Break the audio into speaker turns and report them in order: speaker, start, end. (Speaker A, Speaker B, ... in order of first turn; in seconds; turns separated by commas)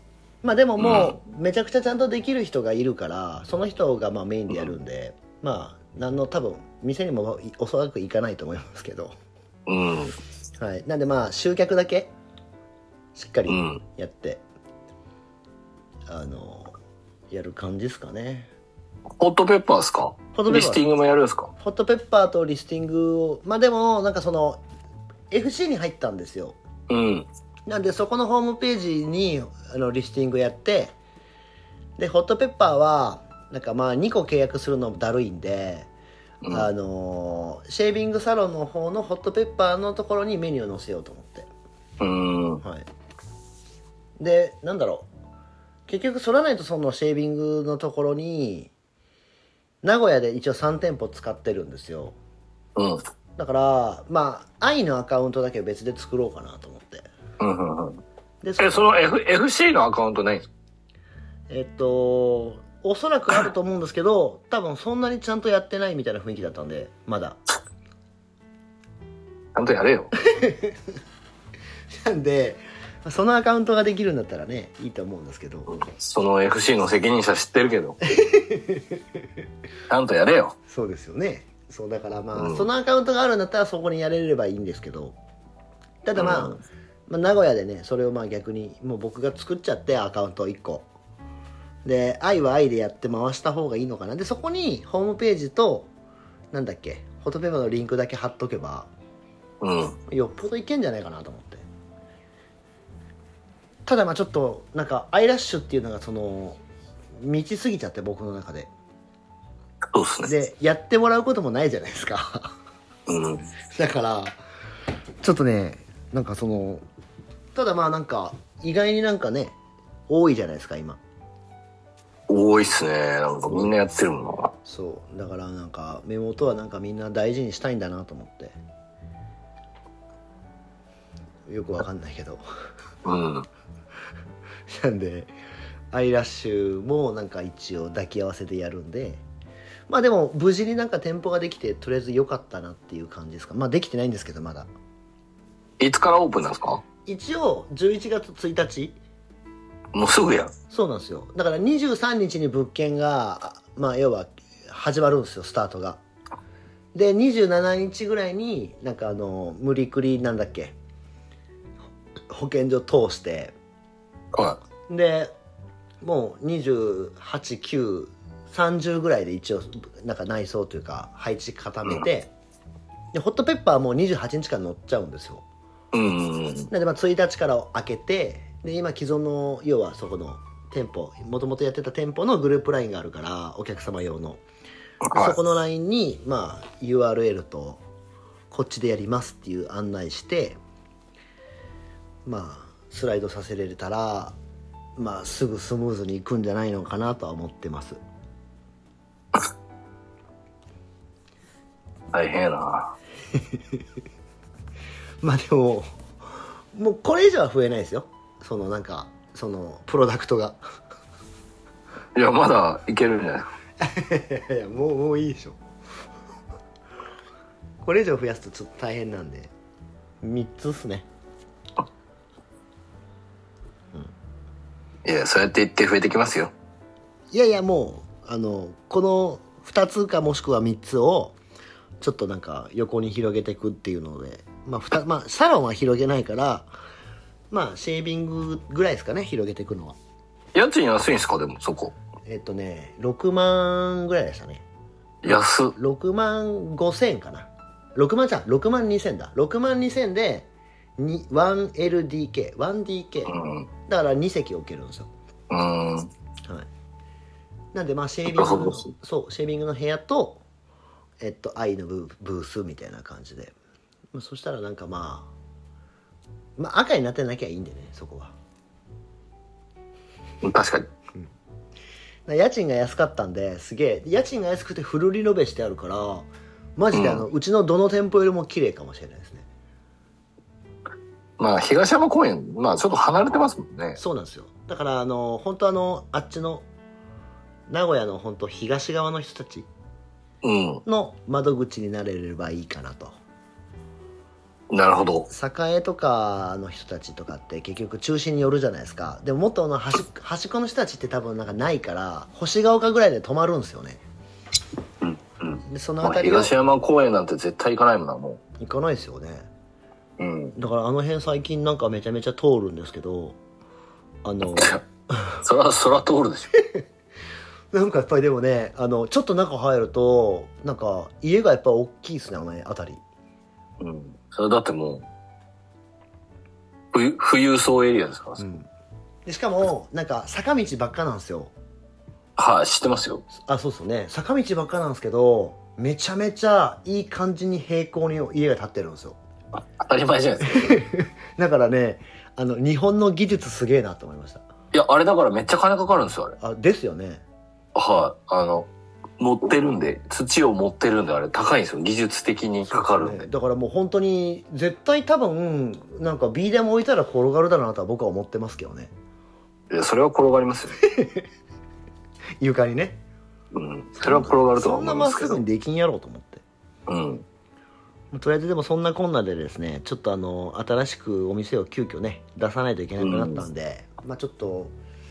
Speaker A: 0.4-9.1, Speaker B: 0.8-1.1, Speaker B: 9.7-10.1, Speaker A: 10.6-12.1, Speaker A: 13.1-14.4, Speaker B: 13.5-13.8, Speaker A: 16.1-16.7, Speaker A: 17.3-18.5, Speaker B: 19.2-21.5, Speaker A: 20.3-20.8, Speaker A: 21.6-24.6, Speaker A: 25.3-26.6, Speaker B: 26.9-27.3, Speaker A: 27.6-30.9, Speaker A: 32.0-35.9, Speaker B: 36.4-36.7, Speaker A: 36.5-41.5, Speaker B: 42.0-42.6, Speaker A: 42.6-42.9, Speaker A: 44.2-45.1, Speaker A: 45.9-48.7, Speaker A: 49.8-52.1, Speaker B: 52.8-53.0, Speaker A: 53.4-57.1, Speaker B: 57.4-58.0, Speaker A: 58.4-58.9, Speaker B: 58.6-60.5, Speaker A: 61.5-67.4, Speaker B: 69.5-70.1, Speaker A: 70.3-70.7, Speaker A: 72.0-75.8, Speaker B: 75.7-78.0, Speaker A: 78.1-78.8, Speaker B: 79.9-80.5, Speaker A: 80.7-85.2, Speaker B: 82.3-82.7, Speaker A: 86.0-90.9, Speaker B: 86.2-86.6, Speaker A: 91.8-95.9, Speaker A: 96.5-98.9, Speaker B: 99.6-100.0, Speaker A: 100.1-101.6, Speaker A: 103.8-106.6, Speaker A: 107.2-108.7, Speaker B: 109.9-110.3, Speaker A: 110.2-112.5, Speaker B: 113.1-113.5, Speaker A: 113.7-114.3, Speaker A: 115.2-116.8, Speaker A: 117.5-119.5, Speaker A: 120.1-121.0, Speaker B: 122.3-124.5, Speaker A: 124.6-128.5, Speaker A: 131.5-132.4, Speaker B: 133.0-133.5, Speaker A: 134.7-135.3, Speaker A: 135.9-139.2, Speaker A: 139.9-144.7, Speaker B: 145.8-146.8, Speaker A: 147.0-149.0, Speaker B: 149.9-150.5, Speaker A: 150.7-156.0, Speaker A: 156.9-160.7, Speaker A: 162.3-163.5, Speaker B: 164.3-164.6, Speaker A: 164.9-165.3, Speaker A: 166.0-172.3, Speaker A: 173.1-175.4, Speaker B: 175.9-176.7, Speaker A: 176.7-184.4, Speaker B: 185.0-185.3, Speaker A: 185.1-187.8, Speaker A: 188.5-190.6, Speaker A: 192.2-194.3, Speaker A: 195.0-198.0, Speaker B: 202.1-202.9, Speaker A: 205.2-205.9, Speaker A: 206.7-210.6, Speaker B: 212.2-213.5, Speaker A: 213.8-215.6, Speaker A: 217.8-219.5, Speaker A: 220.2-221.1, Speaker B: 225.0-226.5, Speaker A: 227.3-231.4, Speaker A: 232.0-236.7, Speaker A: 237.5-240.0, Speaker B: 240.5-241.9, Speaker A: 242.2-244.6, Speaker B: 245.2-245.7, Speaker A: 245.3-253.3, Speaker B: 253.3-253.7, Speaker A: 253.9-255.1, Speaker B: 255.5-256.1, Speaker A: 257.7-260.4, Speaker B: 258.3-258.9, Speaker A: 261.2-263.5, Speaker A: 264.1-265.3, Speaker A: 266.6-268.3, Speaker B: 270.4-270.9, Speaker A: 272.2-279.4, Speaker B: 276.9-277.2, Speaker B: 281.4-284.0, Speaker A: 284.0-286.6, Speaker A: 287.7-289.7, Speaker B: 290.4-290.8, Speaker A: 290.8-293.2, Speaker B: 294.7-295.3, Speaker A: 295.3-304.0, Speaker B: 305.0-308.4, Speaker A: 305.6-306.5, Speaker A: 308.6-309.5, Speaker B: 310.2-310.5, Speaker A: 310.6-313.4, Speaker A: 314.2-315.2, Speaker B: 314.6-314.8, Speaker B: 315.4-316.5, Speaker A: 317.7-323.0, Speaker B: 323.8-325.1, Speaker B: 326.9-328.4, Speaker A: 328.4-328.7, Speaker A: 329.2-331.5, Speaker B: 332.4-333.2, Speaker A: 333.3-339.2, Speaker B: 339.8-340.7, Speaker A: 340.5-344.4, Speaker B: 344.7-346.4, Speaker A: 346.4-347.2, Speaker B: 347.7-353.3, Speaker A: 352.7-358.9, Speaker B: 359.7-360.8, Speaker A: 360.8-361.2, Speaker A: 362.4-363.0, Speaker B: 363.5-365.4, Speaker A: 363.9-366.4, Speaker B: 366.9-367.2, Speaker A: 368.1-374.7, Speaker B: 373.0-373.4